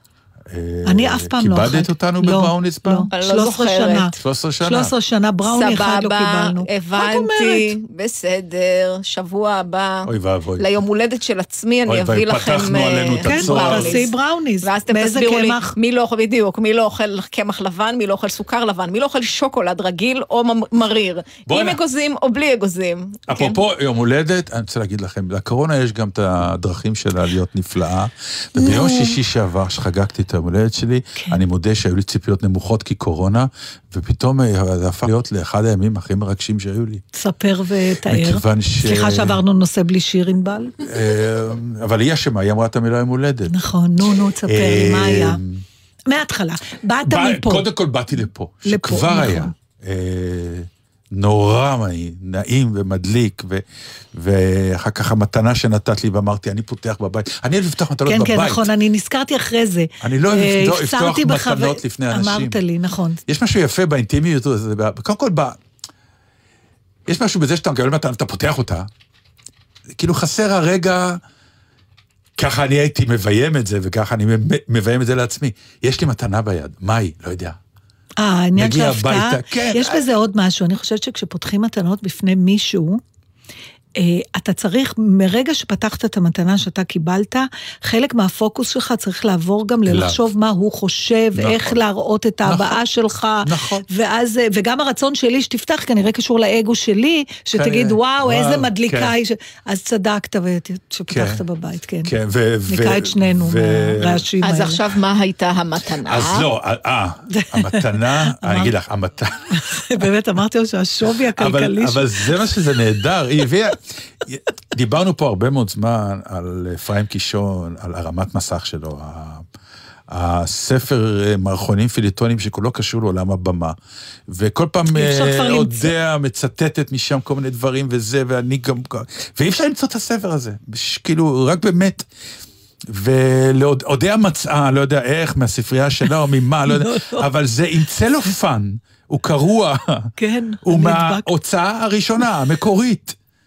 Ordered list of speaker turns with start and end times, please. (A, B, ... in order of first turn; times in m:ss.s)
0:00.5-0:03.1 A
0:00.9-0:07.7 B
0:03.1-0:04.1 C
0:04.2-0:04.9 A
0:05.4-0:23.6 C
0:10.1-0:10.7 A
0:11.9-0:14.1 A
0:13.2-0:15.7 B
0:21.5-0:21.8 A
0:23.3-0:37.0 A
0:28.6-0:29.2 B
0:37.2-0:40.8 B
0:38.1-0:39.4 A
0:40.8-0:43.5 A
0:43.5-0:45.4 B
0:44.5-0:45.6 A
0:46.1-0:47.7 B
0:47.0-0:58.7 A
0:48.7-0:49.5 B
0:58.1-1:03.2 B
1:00.0-1:02.6 A
1:03.3-1:05.6 A
1:07.1-1:08.9 A
1:10.0-1:11.2 A
1:12.4-1:17.6 A
1:18.2-1:23.0 B
1:18.6-1:20.0 A
1:24.0-1:42.1 B
1:29.9-1:30.2 A
1:31.4-1:31.8 A
1:32.4-1:32.8 A
1:33.4-1:33.8 A
1:37.5-1:39.1 A
1:41.1-1:41.4 A
1:42.0-1:44.2 A
1:42.7-1:44.8 B
1:44.4-1:46.5 C
1:46.0-1:49.8 A
1:47.3-1:48.7 B
1:49.5-1:52.2 B
1:51.3-1:59.4 A
2:00.1-2:03.8 A
2:04.3-2:12.1 A
2:04.9-2:05.9 B
2:12.9-2:20.1 A
2:16.7-2:17.2 B
2:20.2-2:21.3 B
2:20.6-2:23.2 A